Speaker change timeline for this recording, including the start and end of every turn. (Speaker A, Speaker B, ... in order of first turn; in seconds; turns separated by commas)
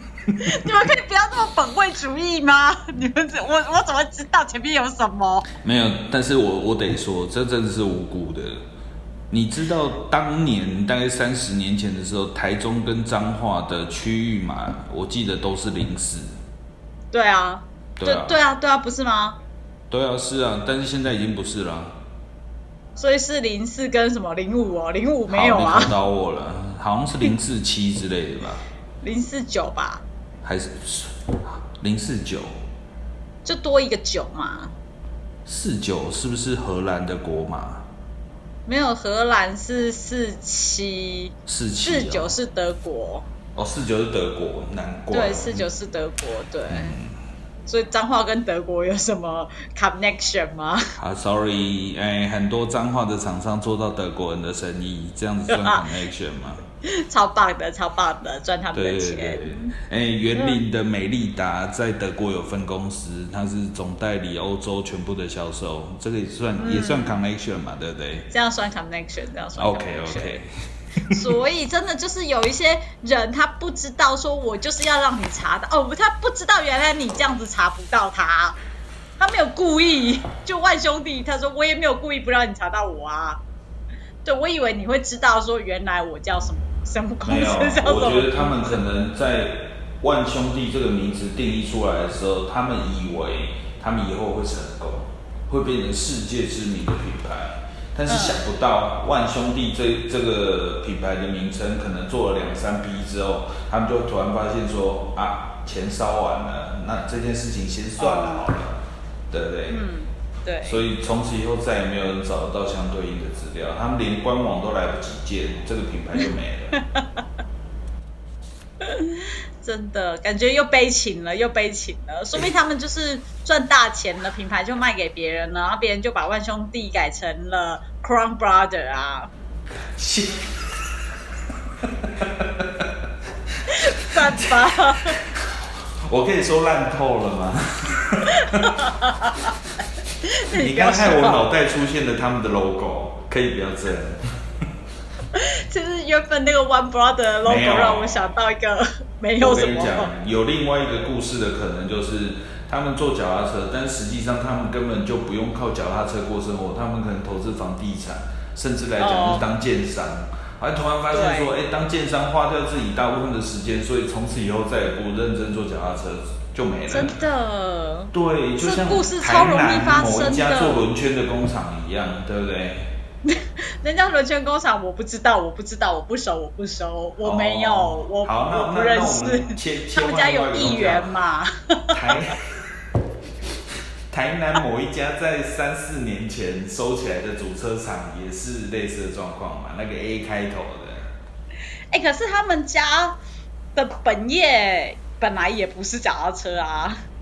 Speaker A: 0.3-0.6, Speaker B: 0.3-5.5, Speaker A: 5.6-8.6, Speaker A: 9.3-16.3, Speaker B: 17.1-19.4, Speaker A: 18.0-18.4, Speaker A: 19.9-21.9, Speaker B: 23.0-25.9, Speaker A: 25.3-28.6, Speaker B: 29.0-30.0, Speaker A: 30.4-32.5, Speaker B: 33.4-34.7, Speaker A: 35.5-37.9, Speaker B: 38.7-43.3, Speaker A: 41.5-42.3, Speaker A: 43.5-45.6, Speaker B: 45.1-47.0, Speaker A: 46.7-47.1, Speaker B: 47.7-50.9, Speaker A: 51.0-56.6, Speaker B: 55.5-55.8, Speaker B: 56.8-59.7, Speaker A: 58.7-68.3, Speaker B: 60.3-60.6, Speaker B: 66.6-67.2, Speaker B: 68.3-70.4, Speaker A: 69.6-70.5, Speaker A: 71.0-71.3, Speaker B: 71.1-78.6, Speaker B: 79.2-83.4, Speaker B: 84.2-88.8, Speaker A: 87.2-109.8, Speaker B: 98.1-98.4, Speaker B: 108.0-108.5, Speaker B: 109.7-110.8, Speaker A: 110.6-116.7, Speaker B: 116.7-117.2, Speaker B: 118.8-129.3, Speaker A: 129.8-130.5, Speaker A: 131.8-132.9, Speaker B: 133.7-135.2, Speaker A: 133.7-134.5, Speaker A: 135.2-138.7, Speaker B: 138.3-139.5, Speaker B: 140.2-141.4, Speaker A: 140.5-144.2, Speaker B: 145.3-150.1, Speaker A: 147.4-148.2, Speaker A: 149.4-167.2, Speaker B: 159.0-159.4, Speaker B: 161.1-161.5, Speaker B: 166.9-170.8, Speaker A: 168.1-172.9, Speaker B: 173.2-182.2, Speaker A: 177.2-181.1, Speaker A: 181.9-182.6, Speaker A: 184.1-191.1, Speaker B: 191.9-193.2, Speaker B: 193.8-197.0